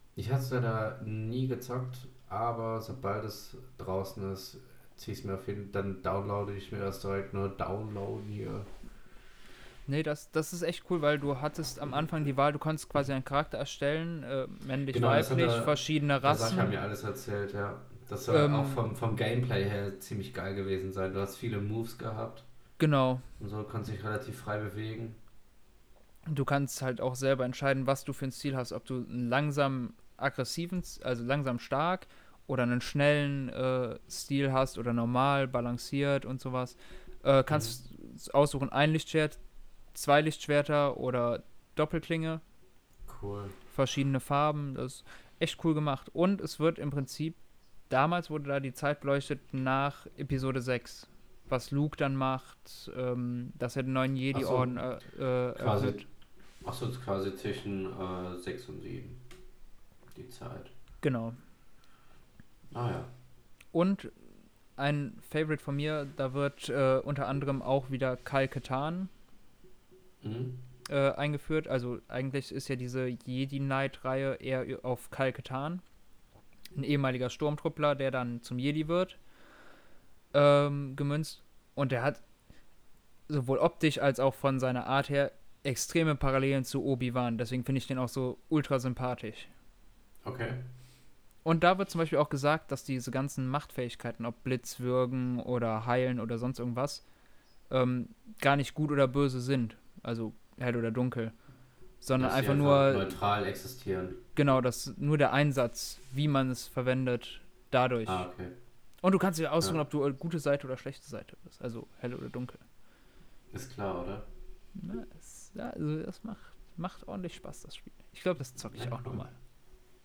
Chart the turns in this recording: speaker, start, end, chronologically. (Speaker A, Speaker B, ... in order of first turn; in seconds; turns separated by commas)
Speaker A: 0.1-8.7, Speaker B: 9.9-16.7, Speaker A: 14.9-22.4, Speaker B: 18.3-18.8, Speaker B: 22.8-23.2, Speaker A: 23.4-25.2, Speaker B: 26.3-39.4, Speaker A: 37.5-37.8, Speaker B: 39.9-42.4, Speaker A: 43.1-43.5, Speaker B: 43.7-56.0, Speaker A: 54.3-54.8, Speaker A: 55.5-56.0, Speaker A: 56.6-59.2, Speaker A: 60.1-60.7, Speaker B: 61.0-61.4, Speaker A: 62.7-63.1, Speaker B: 63.7-64.2, Speaker B: 64.8-69.1, Speaker A: 70.2-70.6, Speaker B: 70.9-75.8, Speaker B: 76.8-79.2, Speaker B: 80.3-82.2, Speaker B: 83.3-89.5, Speaker A: 90.2-90.6, Speaker B: 91.5-97.0, Speaker B: 97.7-101.4, Speaker B: 102.0-103.1, Speaker A: 102.2-104.2, Speaker B: 104.3-108.2, Speaker A: 108.1-108.5, Speaker B: 109.0-112.6, Speaker A: 113.5-114.3, Speaker B: 114.8-119.3, Speaker A: 118.7-119.3